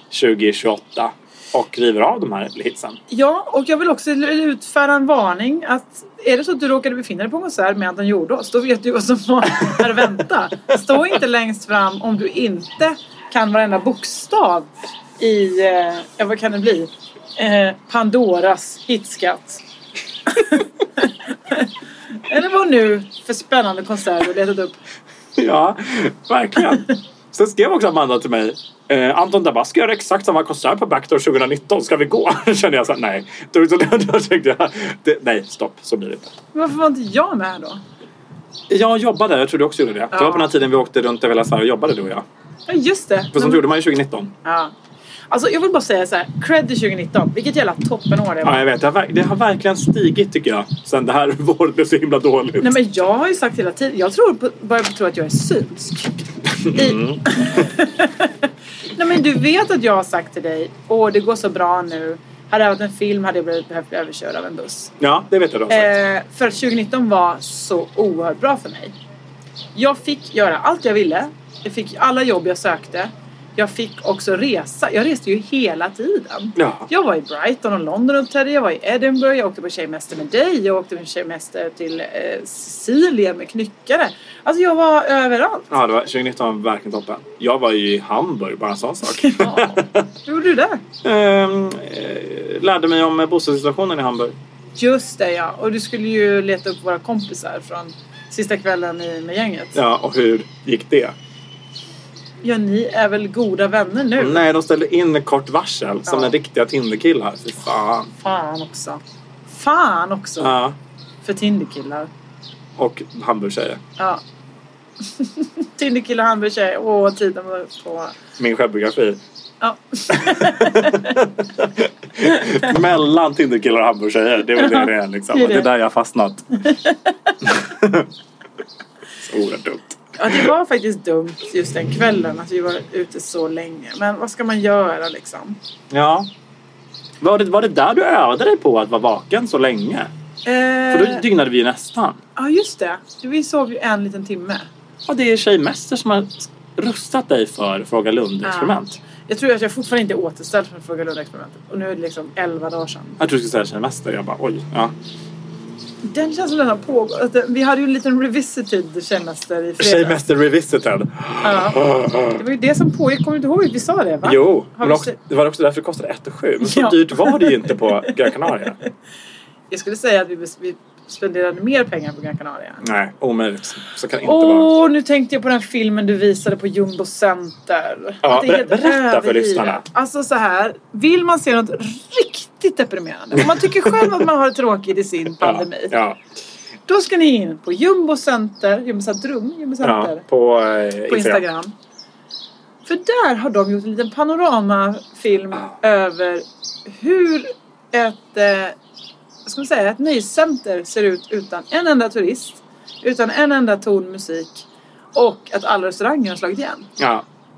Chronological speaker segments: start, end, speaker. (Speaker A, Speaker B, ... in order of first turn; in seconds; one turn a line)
Speaker A: 0.1-3.0
Speaker B: 3.1-19.6
Speaker B: 20.3-21.7
Speaker B: 22.3-24.7
Speaker A: 25.4-36.3
Speaker B: 36.5-37.8
Speaker A: 38.7-42.2
Speaker B: 40.1-40.5
Speaker B: 42.7-43.6
Speaker A: 43.3-44.3
Speaker B: 44.4-44.7
Speaker B: 45.3-48.6
Speaker A: 48.4-52.8
Speaker B: 52.6-56.1
Speaker A: 56.6-57.6
Speaker B: 56.7-64.9
Speaker A: 65.0-65.9
Speaker B: 65.7-68.9
Speaker B: 69.7-85.7
Speaker A: 76.5-76.9
Speaker A: 85.7-90.0
Speaker B: 89.1-90.8
Speaker A: 91.0-94.3
Speaker B: 94.8-99.8
Speaker A: 99.7-101.1
Speaker B: 102.4-104.4
Speaker A: 104.2-108.1
Speaker B: 106.0-106.3
Speaker B: 108.2-110.5
Speaker A: 110.4-110.8
Speaker B: 111.2-112.1
Speaker A: 112.8-113.8
Speaker B: 115.1-118.1
Speaker A: 118.4-119.2
Speaker B: 119.6-121.2
Speaker A: 120.1-126.4
Speaker B: 124.6-125.7
Speaker B: 126.6-127.3
Speaker A: 127.4-128.1
Speaker A: 129.2-130.5
Speaker B: 130.2-135.6
Speaker A: 135.9-136.3
Speaker A: 137.2-140.1
Speaker B: 140.4-141.2
Speaker A: 140.9-142.2
Speaker B: 142.3-144.7
Speaker A: 145.1-149.0
Speaker B: 148.4-153.2
Speaker A: 153.2-154.9
Speaker B: 156.0-160.2
Speaker A: 159.8-162.4
Speaker B: 161.4-165.2
Speaker A: 164.2-168.8
Speaker B: 166.6-168.1
Speaker B: 169.7-172.8
Speaker A: 172.8-174.7
Speaker B: 174.2-185.9
Speaker A: 178.2-179.8
Speaker A: 183.3-184.1
Speaker A: 185.4-186.2
Speaker B: 186.9-190.2
Speaker A: 189.8-191.4
Speaker B: 191.1-191.7
Speaker B: 192.8-198.8
Speaker B: 199.4-206.9
Speaker A: 207.0-207.2